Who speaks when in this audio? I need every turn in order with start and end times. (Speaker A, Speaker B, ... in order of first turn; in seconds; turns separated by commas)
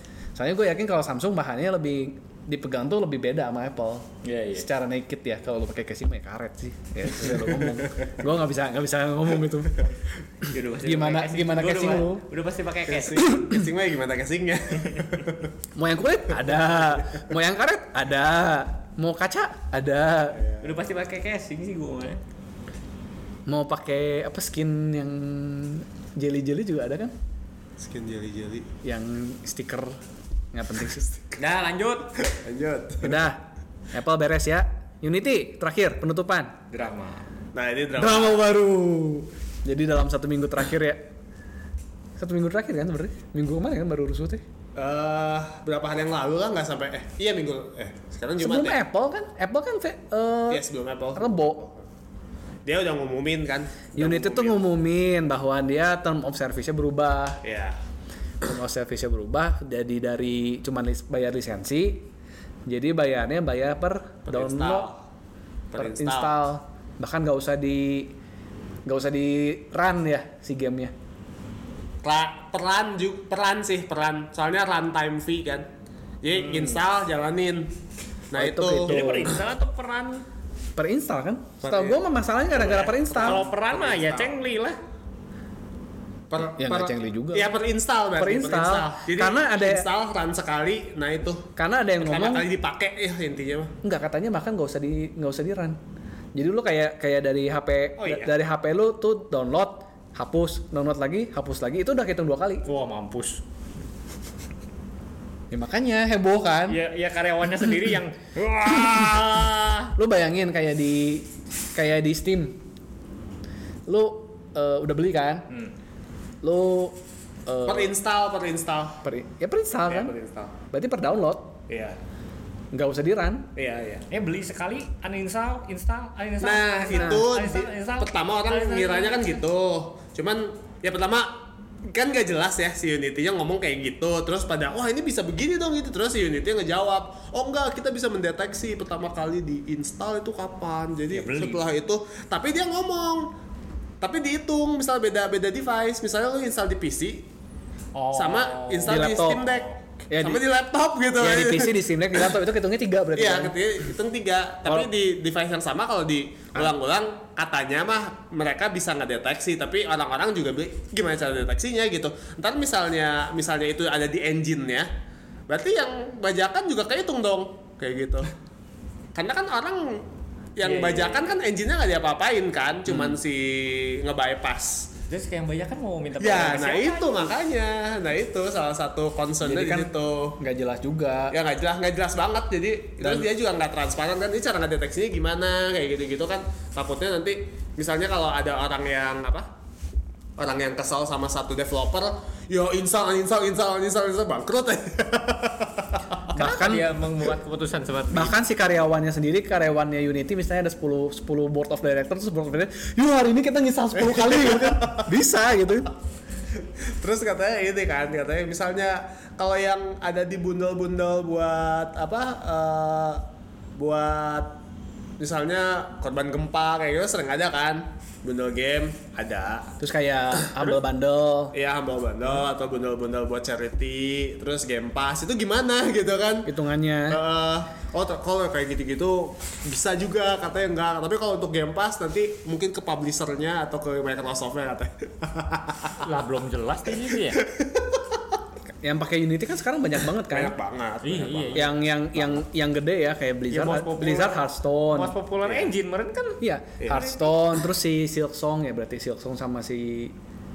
Speaker A: 0.4-12.3, Speaker B: 4.2-4.7, Speaker C: 7.3-7.8, Speaker B: 10.5-13.2, Speaker C: 12.9-15.5, Speaker A: 13.2-13.6, Speaker B: 14.8-15.1, Speaker A: 15.8-20.4, Speaker C: 20.4-20.7, Speaker B: 20.6-22.2, Speaker A: 23.5-27.1, Speaker C: 27.8-28.7, Speaker A: 28.8-30.0, Speaker A: 30.5-31.1, Speaker B: 31.4-32.1, Speaker C: 32.2-33.3, Speaker A: 33.0-36.6, Speaker B: 36.7-37.3, Speaker C: 37.5-38.5, Speaker A: 38.0-41.1, Speaker A: 42.2-44.4, Speaker C: 44.8-48.8, Speaker A: 48.4-51.6, Speaker C: 50.5-51.8, Speaker C: 52.6-54.6, Speaker A: 54.0-57.4, Speaker C: 57.4-57.8, Speaker A: 58.4-62.1, Speaker A: 62.7-64.9, Speaker C: 64.3-65.0, Speaker C: 65.7-66.4, Speaker A: 65.8-68.1, Speaker A: 68.9-70.9, Speaker C: 72.0-75.7, Speaker C: 76.2-77.7, Speaker B: 76.3-76.8, Speaker C: 78.3-79.2, Speaker A: 78.4-79.3, Speaker B: 78.8-80.3, Speaker A: 80.8-83.5, Speaker C: 81.6-82.0, Speaker C: 82.6-84.4, Speaker B: 82.6-84.8, Speaker C: 86.3-93.8, Speaker A: 86.6-87.5, Speaker A: 88.2-89.9, Speaker A: 91.6-92.5, Speaker A: 93.8-95.8, Speaker A: 96.3-102.7, Speaker C: 98.0-98.3, Speaker B: 102.7-103.4, Speaker A: 105.5-106.8, Speaker B: 106.7-109.9, Speaker A: 110.0-112.6, Speaker A: 113.9-115.5, Speaker A: 116.4-117.9, Speaker C: 117.7-119.0, Speaker A: 119.0-120.1, Speaker C: 119.9-120.5, Speaker A: 120.7-121.6, Speaker C: 121.7-122.0, Speaker A: 122.7-123.5, Speaker C: 123.6-124.1, Speaker B: 124.1-129.4, Speaker C: 126.4-143.3, Speaker A: 126.9-127.2, Speaker B: 141.1-141.7, Speaker C: 144.0-147.3, Speaker B: 147.9-149.8, Speaker C: 148.1-149.7, Speaker A: 148.9-149.4, Speaker A: 150.1-150.4, Speaker C: 150.2-152.3, Speaker A: 151.2-153.6, Speaker C: 153.2-164.9, Speaker C: 165.5-168.3, Speaker C: 169.2-174.9, Speaker B: 170.6-171.3, Speaker B: 175.1-177.3, Speaker C: 176.2-180.4, Speaker A: 179.4-181.3, Speaker C: 181.3-189.5, Speaker A: 183.0-183.3, Speaker C: 190.4-196.2, Speaker B: 196.3-198.4, Speaker A: 196.3-196.9, Speaker A: 198.1-205.9, Speaker C: 204.0-205.1, Speaker C: 207.0-213.2, Speaker C: 213.8-214.6, Speaker C: 215.2-219.7, Speaker A: 219.8-221.6, Speaker C: 220.4-220.7, Speaker C: 221.5-226.5, Speaker A: 226.5-227.2, Speaker C: 227.1-236.0, Speaker B: 236.0-237.4, Speaker C: 237.3-238.0, Speaker A: 238.8-240.6, Speaker C: 240.3-242.4, Speaker B: 241.0-241.7, Speaker A: 241.5-245.2, Speaker B: 243.5-246.4, Speaker C: 245.4-245.7, Speaker A: 246.4-250.2, Speaker C: 246.8-247.4